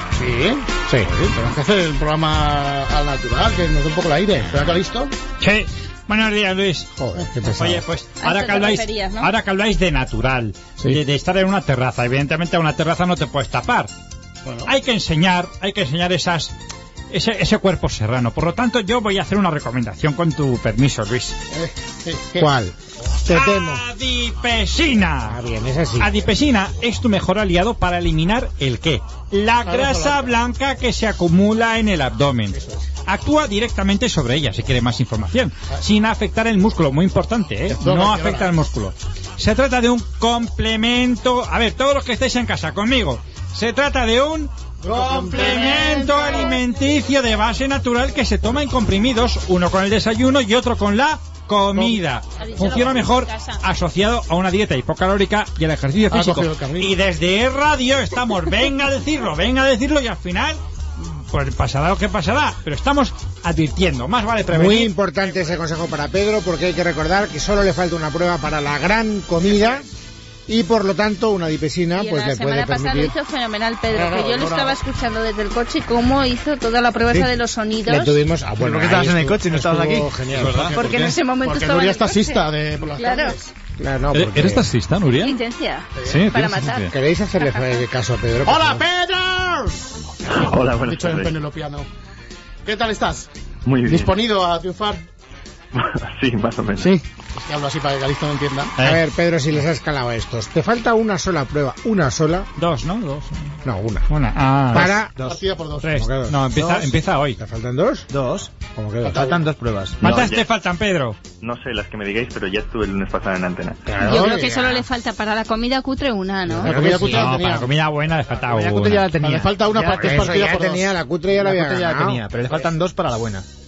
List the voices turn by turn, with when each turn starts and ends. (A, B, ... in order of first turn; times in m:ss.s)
0:00.1-0:05.1 A
0:05.4-0:06.9 B
0:07.0-0:07.8 C
0:07.5-0:13.9 B
0:08.2-0:09.3 D
0:14.4-0:14.7 A
0:14.6-0:16.5 B
0:17.1-0:21.4 B
0:21.5-0:22.5 A
0:22.4-0:23.8 C
0:23.3-0:25.4 B
0:25.2-0:26.1 C
0:26.0-1:00.6 B
0:29.6-0:30.4 A
0:32.5-0:32.9 A
0:37.7-0:38.5 A
0:44.8-0:46.2 A
0:52.4-0:53.6 D
0:56.1-0:57.0 A
1:01.1-1:04.9 B
1:04.5-1:09.9 C
1:10.5-1:13.1 C
1:11.9-1:18.2 D
1:13.9-1:14.8 A
1:17.8-1:20.7 C
1:18.6-1:20.2 E
1:20.3-1:21.1 F
1:20.5-1:23.5 A
1:20.7-1:23.4 D
1:23.8-1:24.7 C
1:24.1-1:25.4 F
1:25.2-1:27.8 D
1:26.0-1:26.9 F
1:26.9-1:28.8 C
1:28.4-1:29.9 A
1:30.3-1:31.4 G
1:30.7-1:31.9 A
1:32.6-1:33.3 A
1:33.6-1:34.1 G
1:33.8-1:35.0 A
1:35.7-1:36.9 G
1:36.8-1:38.7 A
1:38.8-1:42.5 C
1:42.6-1:43.3 B
1:43.6-1:44.1 C
1:44.1-1:44.9 B
1:44.7-1:45.1 C
1:45.2-1:45.9 A
1:45.8-1:47.4 B
1:45.9-1:46.4 C
1:46.6-1:46.9 E
1:47.4-1:49.3 C
1:48.1-1:48.5 E
1:49.0-1:49.5 A
1:49.1-1:50.3 E
1:50.0-1:50.5 G
1:50.0-1:51.2 B
1:51.4-1:53.9 G
1:53.9-1:54.8 C
1:54.0-1:56.7 D
1:54.1-1:54.3 A
1:56.6-1:57.7 A
1:56.6-1:57.6 C
1:57.1-1:59.1 B
1:58.4-2:03.4 E
1:59.2-2:00.8 A
1:59.9-2:02.2 C